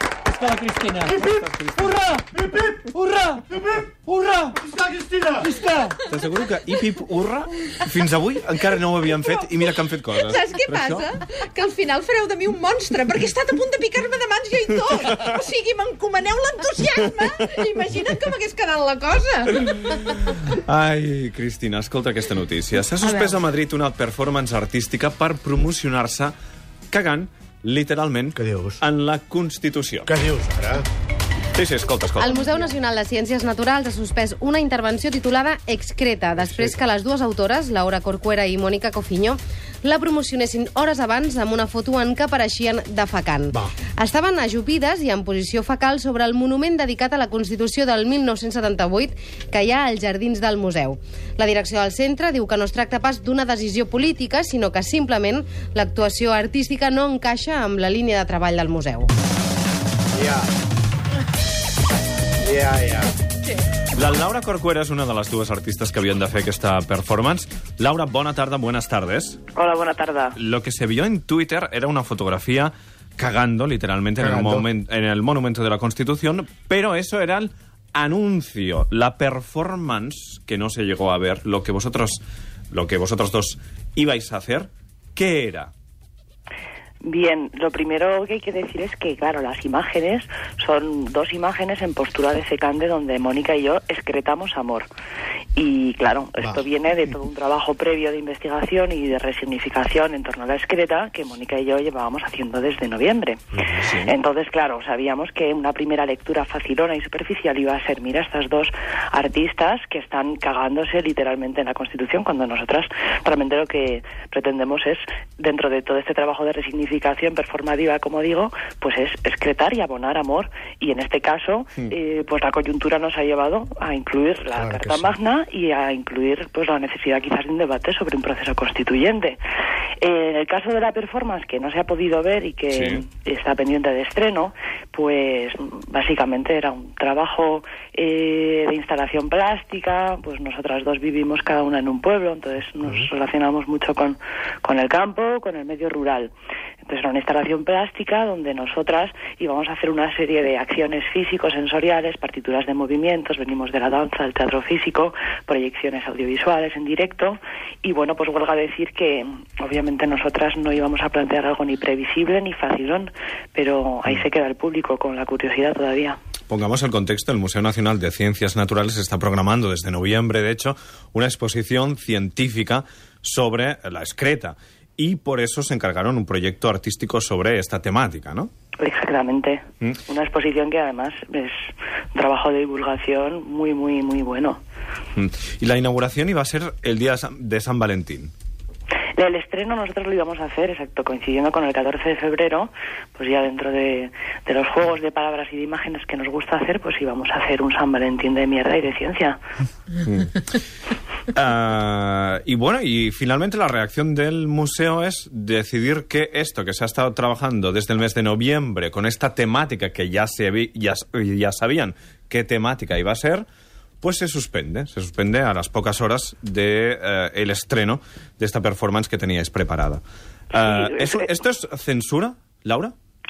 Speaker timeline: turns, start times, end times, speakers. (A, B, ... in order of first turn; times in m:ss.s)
0:00.3-0:04.7 A
0:01.4-0:01.8 B
0:04.6-0:05.5 C
0:05.4-0:06.0 A
0:06.1-0:11.0 B
0:10.2-0:20.2 D
0:20.5-0:26.3 B
0:23.0-0:23.4 D
0:26.9-0:30.1 B
0:28.4-0:28.8 C
0:30.1-0:30.8 C
0:31.5-0:32.4 B
0:32.2-0:59.1 E
1:00.2-1:00.5 C
1:02.4-1:03.1 C
1:04.0-1:09.4 B
1:09.6-1:10.4 F
1:10.4-1:22.2 B
1:14.2-1:14.6 C
1:22.7-1:25.7 B
1:27.0-1:34.9 F
1:35.6-1:43.4 F
1:43.8-1:44.1 B
1:44.0-2:09.4 F
2:04.6-2:05.1 C
2:10.0-2:26.3 F
2:12.7-2:13.0 B
2:26.8-2:46.2 F
2:46.5-2:58.5 B
2:58.8-3:01.6 F
3:02.2-3:04.6 F
3:05.2-3:08.3 B
3:09.2-3:19.4 F
3:20.0-3:20.4 B
3:21.3-3:33.4 B
3:34.0-3:42.9 B
3:40.6-3:41.2 F